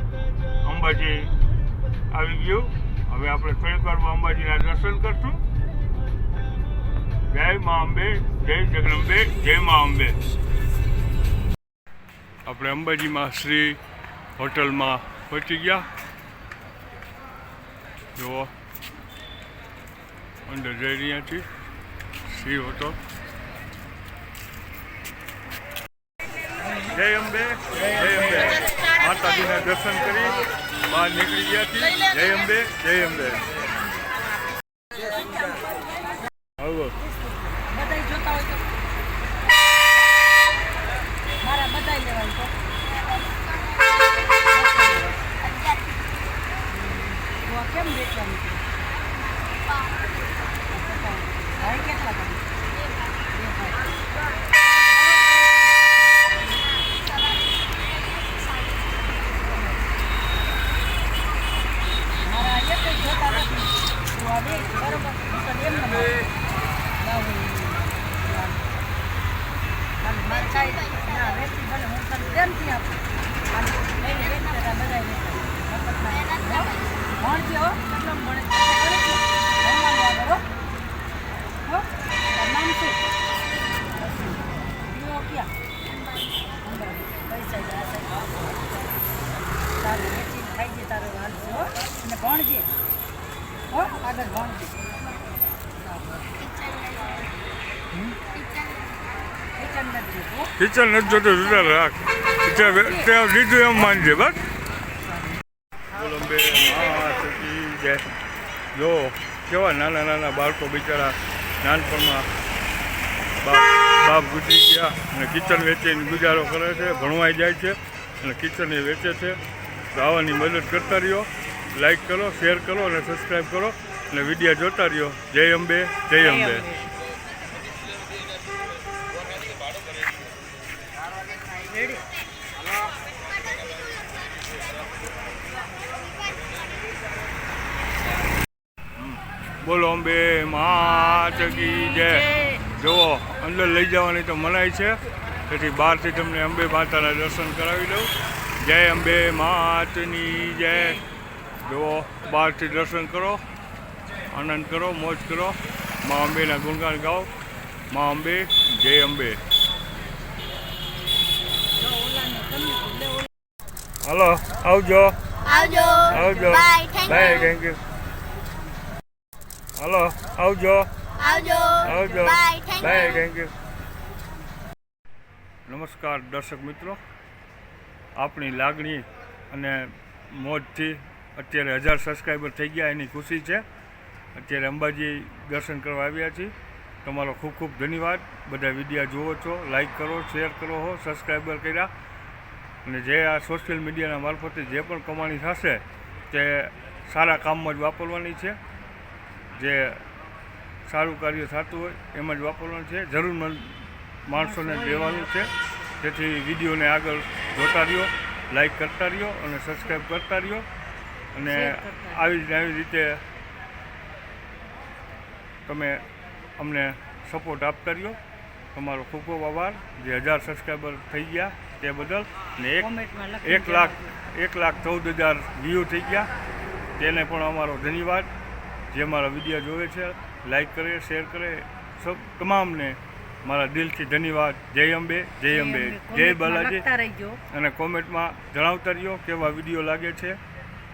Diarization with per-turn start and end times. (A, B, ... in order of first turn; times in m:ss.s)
0:00.6-0:01.3 A
0:02.1-0:05.4 A
0:07.3-0:10.2 A
0:12.4-0:13.8 A
0:14.4-0:15.9 A
0:18.2-0:18.5 A
0:20.5-0:21.5 A
0:22.2-0:23.0 A
0:26.9-0:33.4 A
0:36.6-0:37.0 A
0:37.0-0:38.6 B
0:41.4-0:42.5 B
0:44.5-0:45.2 B
0:46.7-0:48.6 B
0:50.7-0:52.5 B
0:53.3-0:53.8 B
1:02.2-1:06.2 B
1:07.0-1:08.6 B
1:10.0-1:20.4 B
1:21.6-1:23.0 B
1:24.0-1:25.5 B
1:26.6-1:28.3 B
1:29.8-1:32.7 B
1:33.7-1:34.8 B
1:35.8-1:36.3 B
1:36.5-1:37.2 C
1:38.3-1:38.9 C
1:39.6-1:40.5 B
1:40.6-1:44.4 A
1:42.7-1:43.0 B
1:45.9-1:48.1 A
1:48.7-1:52.3 A
1:53.4-1:59.4 A
1:59.9-2:06.7 A
2:06.2-2:06.9 B
2:11.7-2:12.0 B
2:19.0-2:31.0 A
2:21.2-2:22.6 B
2:31.6-2:33.4 A
2:34.3-2:37.3 A
2:37.9-2:39.4 A
2:41.8-2:43.2 B
2:44.0-2:45.2 A
2:45.5-2:47.2 C
2:46.0-2:47.8 A
2:49.8-2:50.9 A
2:51.2-2:51.8 C
2:51.8-2:53.5 A
2:51.9-2:52.3 B
2:52.5-2:52.9 C
2:55.6-2:57.0 A
2:58.2-3:03.6 A
3:04.3-3:11.9 A
3:12.8-3:18.6 A
3:19.5-3:20.1 A
3:20.8-3:30.6 A
3:24.3-3:25.5 B
3:31.3-3:33.2 A
3:31.4-3:32.3 B
3:35.6-3:36.0 A
3:36.6-3:38.2 A
3:38.7-3:42.9 A
3:42.8-3:44.1 B
3:43.4-3:46.3 A
3:47.0-3:48.3 A
3:48.9-3:56.8 A
3:55.5-3:57.4 B
3:57.5-4:00.4 A